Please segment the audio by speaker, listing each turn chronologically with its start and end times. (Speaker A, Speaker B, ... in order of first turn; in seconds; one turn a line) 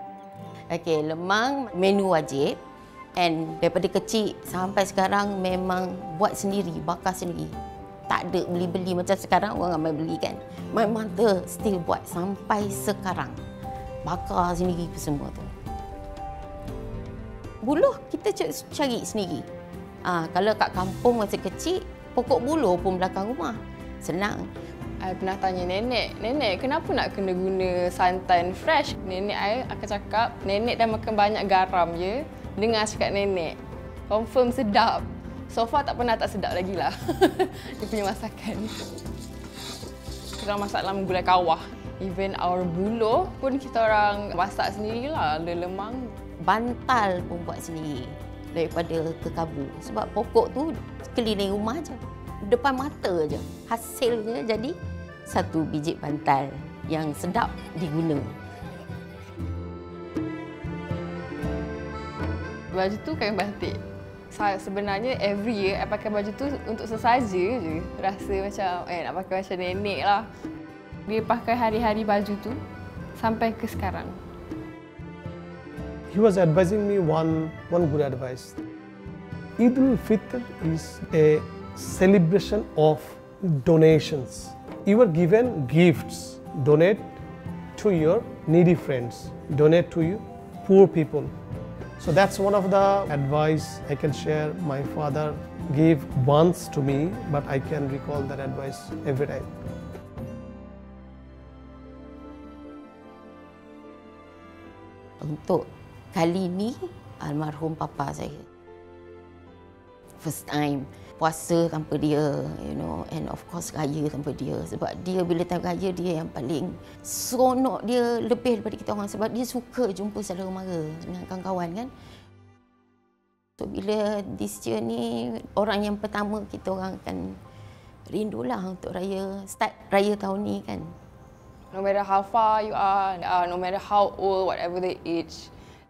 Speaker A: 0.7-2.6
Speaker A: 3.2-7.6
Speaker A: 8.1-13.4
Speaker A: 14.0-15.5
Speaker A: 17.6-19.5
Speaker A: 20.0-24.5
Speaker B: 25.0-38.9
Speaker B: 40.4-46.1
Speaker A: 46.4-58.4
Speaker B: 62.7-63.8
Speaker B: 64.3-70.3
Speaker B: 71.1-72.6
Speaker B: 73.2-74.2
Speaker C: 76.1-78.6
Speaker C: 79.6-87.1
Speaker C: 87.8-91.3
Speaker C: 92.0-99.5
Speaker A: 105.2-108.5
Speaker A: 110.2-121.9
Speaker A: 123.6-127.4
Speaker A: 128.1-130.9
Speaker B: 131.7-135.5